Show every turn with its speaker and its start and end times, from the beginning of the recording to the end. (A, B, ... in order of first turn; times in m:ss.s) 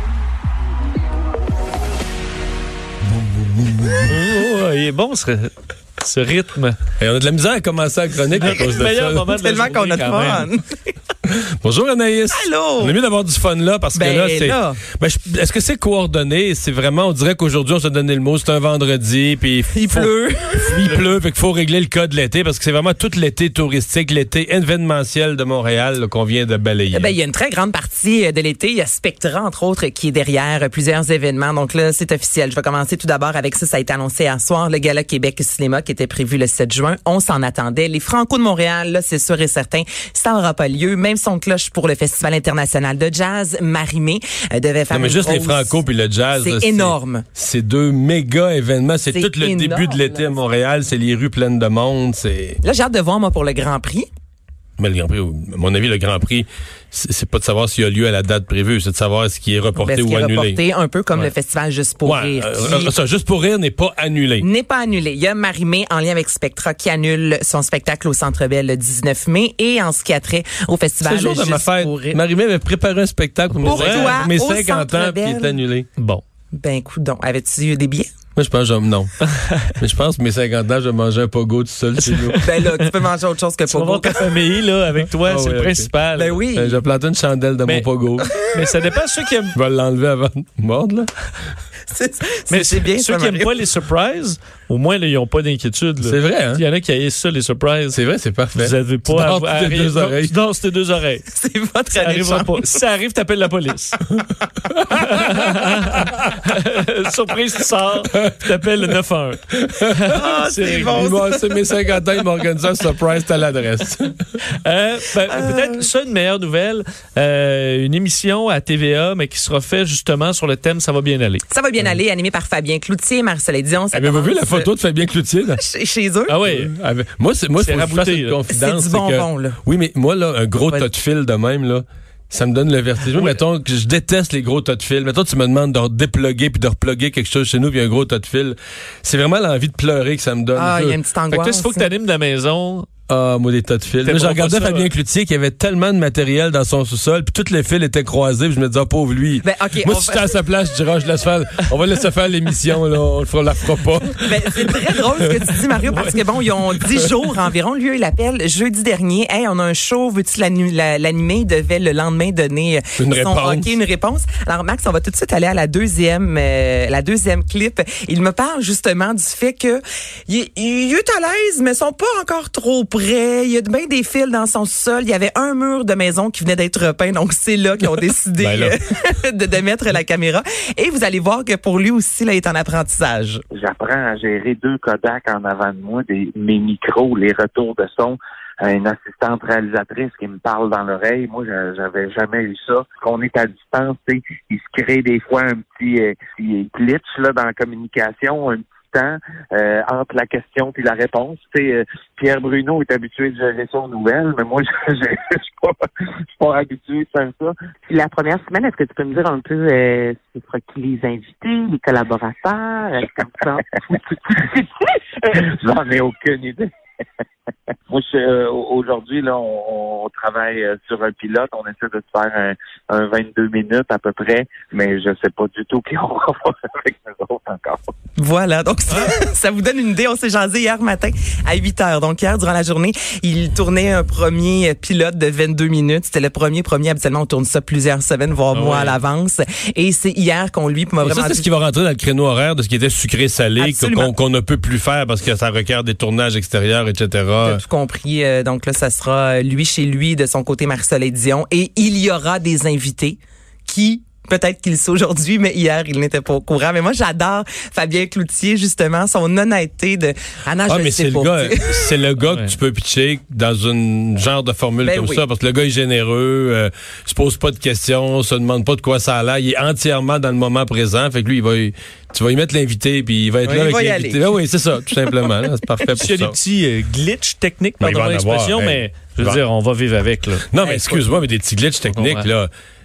0:03.1-0:04.2 A
0:04.1-0:06.8 B
0:07.0-0:09.3 A
0:08.2-0:10.5 B
0:09.4-0:10.8 C
0:11.2-0:27.1 A
0:12.3-0:12.9 C
0:13.9-0:14.8 C
0:19.7-0:20.7 C
0:26.9-0:45.8 C
0:44.9-0:52.6 A
0:46.3-0:47.2 C
0:49.1-0:50.4 C
0:52.6-0:54.1 C
0:54.8-1:00.6 A
0:59.8-1:02.9 C
1:02.0-1:04.5 A
1:04.4-1:12.2 C
1:11.0-1:15.9 A
1:13.5-1:14.2 B
1:13.6-1:15.6 C
1:16.0-1:16.2 B
1:16.5-1:18.1 C
1:18.4-1:19.1 A
1:19.8-1:22.4 A
1:22.0-1:22.9 B
1:22.4-1:24.3 C
1:23.7-1:26.4 B
1:25.2-1:25.9 A
1:26.2-1:26.8 C
1:26.5-1:28.3 A
1:28.4-1:29.6 B
1:29.5-1:31.1 A
1:31.9-1:33.5 C
1:32.5-1:38.0 B
1:36.0-1:36.6 A
1:37.9-1:40.3 A
1:38.6-1:41.3 B
1:41.3-1:42.6 C
1:42.0-1:44.0 B
1:44.7-1:45.0 A
1:45.0-1:51.2 B
1:49.6-1:49.8 A
1:50.1-1:51.4 C
1:50.9-1:54.2 A
1:54.5-2:01.4 B
2:01.5-2:04.7 C
2:03.9-2:05.6 A
2:05.6-2:06.4 C
2:06.3-2:06.7 B
2:06.5-2:20.9 A
2:07.6-2:08.4 B
2:08.5-2:09.6 C
2:20.5-2:21.9 C
2:20.8-2:22.9 B
2:23.1-2:34.6 A
2:24.0-2:24.9 B
2:29.4-2:30.3 C
2:34.2-3:03.4 C
2:43.0-2:43.7 A
2:58.4-2:58.7 A
3:03.5-3:25.8 D
3:26.4-3:27.5 D
3:27.9-3:34.0 E
3:33.2-3:36.7 D
3:37.9-3:47.8 D
3:48.2-4:01.5 C
3:58.5-3:59.0 B
4:01.0-4:07.6 A
4:03.6-4:04.1 C
4:07.4-4:21.9 C
4:20.7-4:36.4 A
4:22.3-4:22.5 B
4:24.8-4:25.2 C
4:33.4-4:34.3 C
4:36.0-4:40.5 B
4:37.8-4:39.4 A
4:40.5-4:42.5 A
4:40.6-4:41.1 C
4:41.9-4:42.3 B